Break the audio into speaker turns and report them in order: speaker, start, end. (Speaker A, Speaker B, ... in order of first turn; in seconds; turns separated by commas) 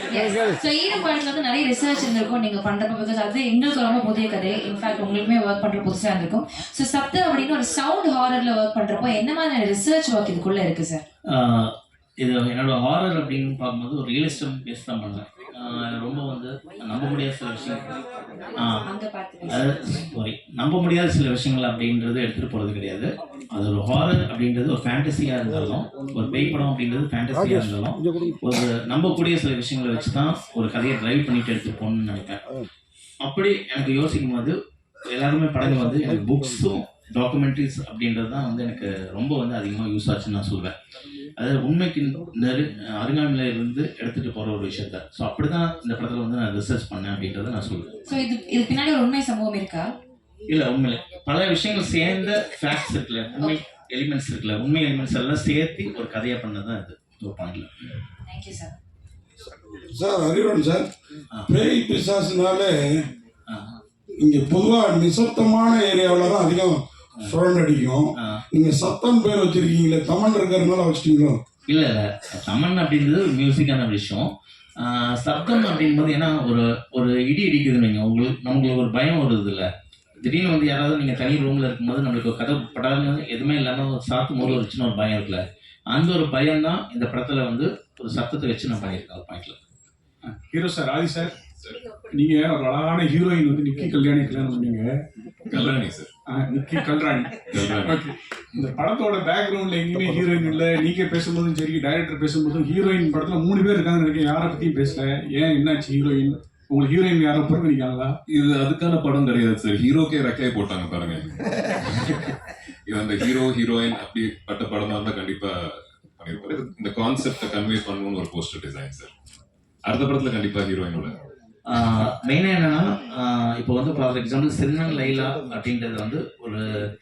Speaker A: 0.1-11.0, Speaker B: 11.3-17.9, Speaker B: 18.6-18.9, Speaker A: 18.9-19.4, Speaker B: 19.4-32.4, Speaker B: 33.2-34.5, Speaker B: 35.1-40.7, Speaker B: 41.4-48.1, Speaker A: 48.1-49.8, Speaker B: 50.5-58.0, Speaker C: 59.8-60.9, Speaker C: 61.5-62.8, Speaker B: 63.5-63.8, Speaker C: 64.2-71.4, Speaker B: 71.7-74.3, Speaker B: 74.8-79.7, Speaker B: 80.2-89.6, Speaker D: 90.2-91.4, Speaker D: 92.1-94.9, Speaker E: 95.5-96.1, Speaker D: 96.3-108.1, Speaker E: 97.5-98.0, Speaker E: 108.3-112.3, Speaker E: 112.9-119.1, Speaker E: 119.9-121.2, Speaker B: 121.7-126.7